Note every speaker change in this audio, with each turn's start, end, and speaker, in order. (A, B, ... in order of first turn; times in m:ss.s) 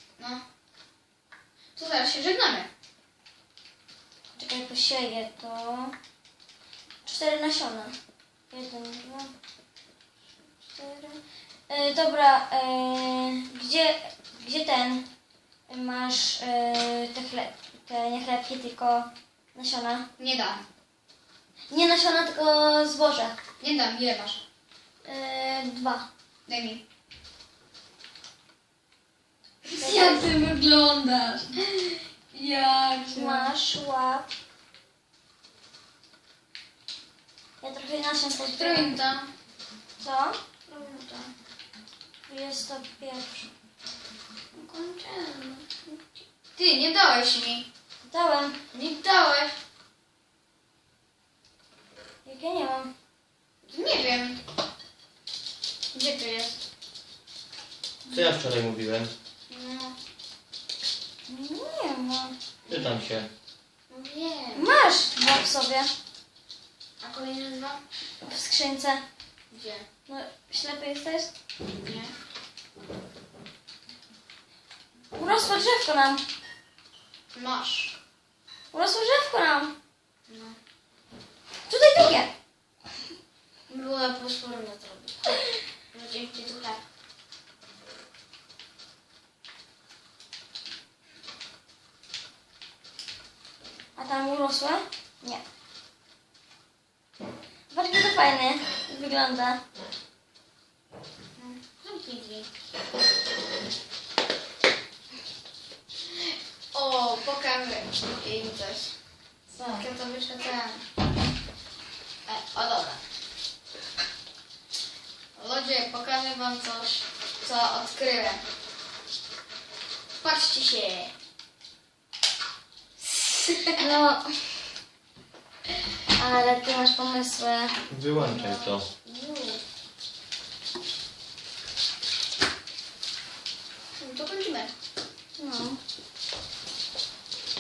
0:01.8-0:02.7 A
0:04.4-0:06.0 B
0:07.0-0:08.0 B
0:08.5-0:09.3 B
0:10.6-0:15.1 B
0:15.7-0:20.1 B
0:20.2-0:20.6 A
0:21.7-0:23.4 B
0:23.6-0:24.4 A
0:25.0-0:26.1 B
0:26.5-0:26.8 A
0:29.7-0:31.5 B
0:29.7-0:30.3 A
0:31.6-0:33.5 A
0:33.1-0:34.3 B
0:37.6-0:39.0 B
0:38.4-0:39.3 A
0:40.0-0:40.4 B
0:40.7-0:41.3 A
0:42.3-0:43.5 B
0:44.5-0:47.7 A
0:48.0-0:48.6 B
0:48.7-0:49.6 A
0:52.2-0:52.9 B
0:53.7-0:54.4 A
0:55.9-0:56.6 A
0:58.1-0:59.1 C
0:59.5-1:00.0 A
1:01.3-1:02.4 B
1:02.7-1:03.3 C
1:03.9-1:04.7 A
1:04.6-1:05.9 B
1:07.0-1:07.8 A
1:08.2-1:09.0 B
1:09.5-1:09.9 A
1:10.1-1:11.3 B
1:11.8-1:12.1 A
1:15.1-1:16.2 B
1:17.3-1:18.0 A
1:18.7-1:19.8 B
1:20.3-1:20.6 A
1:21.7-1:22.3 B
1:23.7-1:26.8 A
1:34.0-1:35.4 B
1:37.7-1:39.6 B
1:41.4-1:42.5 A
1:46.1-1:48.9 A
1:49.5-1:49.9 B
1:49.7-1:50.8 A
1:52.3-1:53.0 A
1:55.4-1:58.4 A
2:00.2-2:01.1 A
2:03.0-2:03.9 A
2:03.8-2:04.6 B
2:06.1-2:07.8 B
2:07.9-2:08.9 C
2:08.2-2:09.6 A
2:14.0-2:14.7 A
2:15.4-2:15.8 B